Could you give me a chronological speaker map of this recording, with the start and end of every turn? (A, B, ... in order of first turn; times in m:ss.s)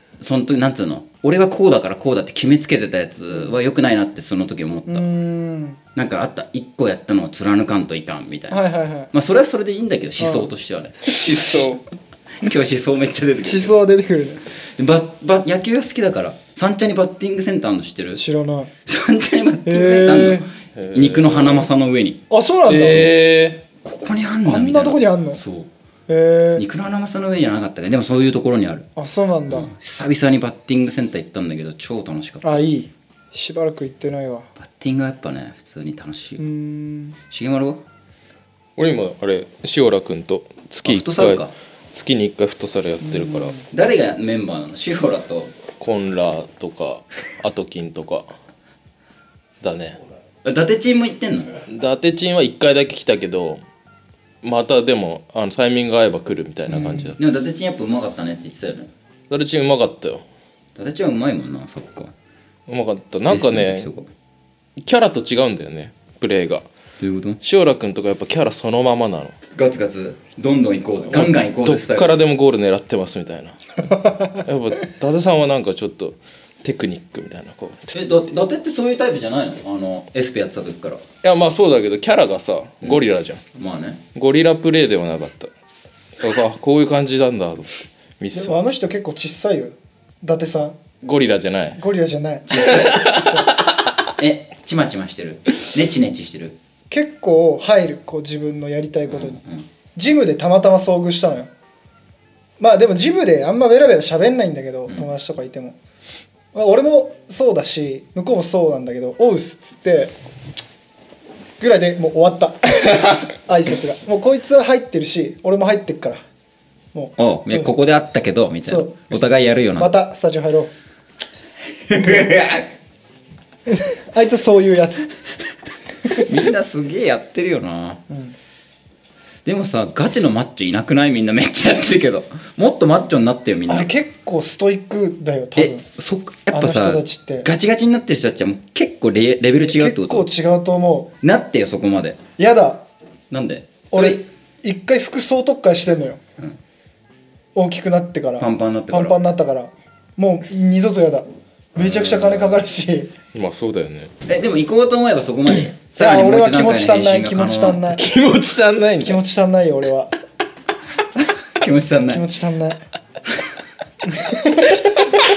0:00.2-0:05.0 A
0:04.9-0:05.8 B
0:06.0-0:11.8 A
0:08.5-0:09.1 B
0:10.2-0:10.5 B
0:11.3-0:11.8 C
0:12.4-0:13.8 A
0:13.4-0:14.4 B
0:14.8-0:18.2 A
0:18.2-0:18.7 B
0:18.8-0:22.2 A
0:19.6-0:20.4 B
0:20.7-0:21.7 C
0:22.3-0:23.1 B
0:22.7-0:23.6 C
0:22.8-0:23.1 A
0:23.8-0:25.7 A
0:24.4-0:25.4 B
0:26.1-0:26.6 B
0:26.6-0:28.8 A
0:29.0-0:29.7 B
0:29.5-0:32.6 A
0:32.4-0:34.5 B
0:34.6-0:36.4 A
0:36.4-0:37.2 B
0:37.3-0:37.8 A
0:38.8-0:43.6 C
0:40.8-0:41.5 A
0:43.1-0:43.6 B
0:43.7-0:45.5 A
0:45.8-0:48.3 C
0:49.6-0:50.0 C
0:50.4-0:51.6 A
0:51.7-0:53.6 C
0:54.4-0:57.2 C
0:56.8-0:57.0 B
0:56.8-0:58.9 A
0:59.3-1:00.2 C
1:00.8-1:02.1 A
1:02.7-1:03.9 C
1:03.3-1:04.1 A
1:04.8-1:06.6 C
1:07.0-1:07.4 A
1:07.4-1:09.4 C
1:09.5-1:12.2 A
1:11.1-1:13.7 C
1:14.3-1:18.0 C
1:17.9-1:21.0 A
1:21.2-1:23.4 C
1:22.8-1:24.0 A
1:24.1-1:25.5 C
1:26.2-1:28.5 C
1:28.3-1:30.8 B
1:31.0-1:31.8 C
1:31.8-1:33.5 B
1:32.5-1:33.2 A
1:32.9-1:33.3 C
1:34.2-1:36.6 A
1:36.9-1:39.4 B
1:39.1-1:39.6 A
1:40.0-1:41.5 B
1:42.6-1:45.8 B
1:46.5-1:50.1 B
1:51.6-1:56.2 B
1:56.9-1:57.7 B
1:57.2-1:59.9 A
1:58.6-2:00.7 B
2:01.8-2:02.7 A
2:03.7-2:05.1 B
2:06.1-2:08.0 A
2:08.1-2:08.3 B
2:09.4-2:13.9 A
2:13.7-2:15.8 B
2:15.6-2:20.3 A
2:16.5-2:17.5 B
2:19.6-2:21.1 B
2:21.2-2:22.2 A
2:22.4-2:22.8 B
2:23.3-2:24.2 A
2:23.9-2:26.2 B
2:27.5-2:33.1 B
2:28.4-2:29.2 A
2:31.8-2:32.6 A
2:33.3-2:34.1 C
2:34.2-2:37.8 A
2:36.0-2:38.0 B
2:37.9-2:39.2 C
2:39.0-2:40.1 B
2:41.4-2:42.2 A
2:42.1-2:42.8 B
2:44.1-2:44.9 B